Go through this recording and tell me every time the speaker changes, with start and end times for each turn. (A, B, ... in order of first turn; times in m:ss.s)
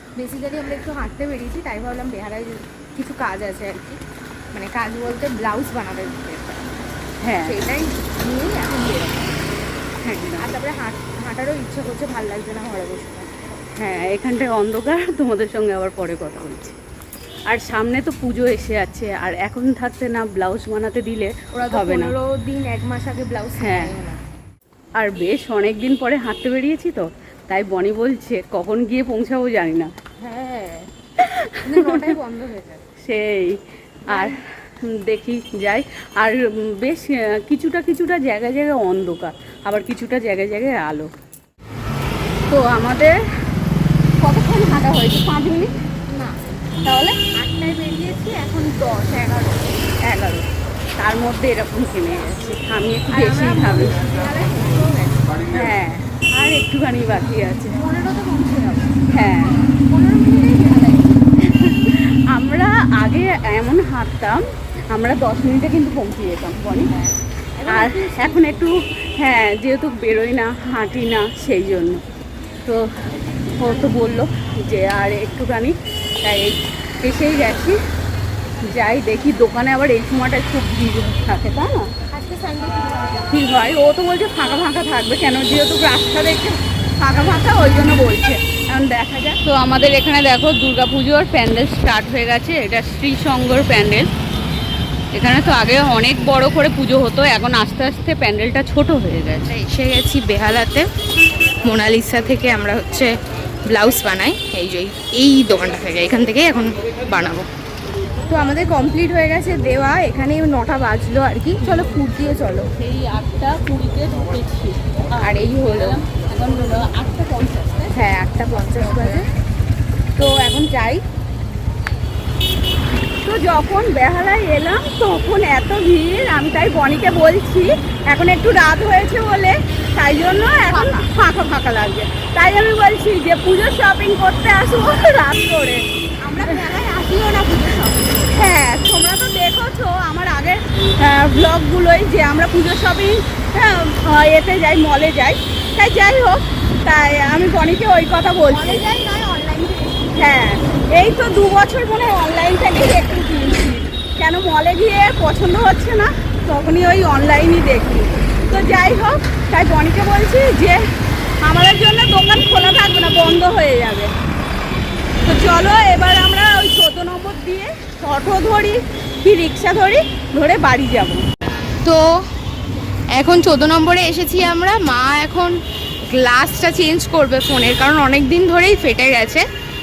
0:00.2-0:04.0 A
0:04.5-0:06.7 A
0:07.2-0:07.6 B
0:07.4-0:09.4 A
0:10.0-0:10.5 B
0:10.4-0:13.3 A
0:13.8-0:16.8 B
0:17.5-0:22.1 B
0:21.5-0:24.2 A
0:23.6-0:23.9 B
0:25.0-0:29.9 B
0:30.2-0:30.9 A
0:31.2-0:32.1 B
0:31.6-0:32.8 A
0:33.0-0:41.1 B
0:34.1-0:34.4 A
0:42.5-0:43.2 B
0:44.2-0:45.7 B
0:46.1-0:46.4 A
0:46.8-0:47.2 B
0:47.2-0:49.8 A
0:50.0-0:50.4 B
0:51.0-0:53.9 B
0:53.1-0:55.5 A
0:55.5-0:57.8 B
0:57.7-1:01.2 A
0:59.1-0:59.5 B
1:01.4-1:06.9 B
1:06.8-1:08.6 A
1:07.7-1:12.0 B
1:13.6-1:17.8 B
1:18.7-1:21.9 B
1:22.1-1:23.3 A
1:23.3-1:34.1 B
1:35.1-1:39.5 B
1:39.5-1:40.9 A
1:41.6-1:43.1 A
1:43.7-1:47.5 A
1:48.3-1:52.7 A
1:51.6-1:51.9 B
1:52.8-1:57.9 B
1:55.2-1:56.0 A
1:57.9-1:59.3 A
2:00.2-2:01.0 A
2:03.2-2:17.4 B
2:16.4-2:18.4 A
2:18.3-2:28.8 B
2:28.4-2:30.1 A
2:30.1-2:40.8 B
2:41.4-2:44.1 B
2:45.2-2:51.2 B
2:53.1-2:59.4 A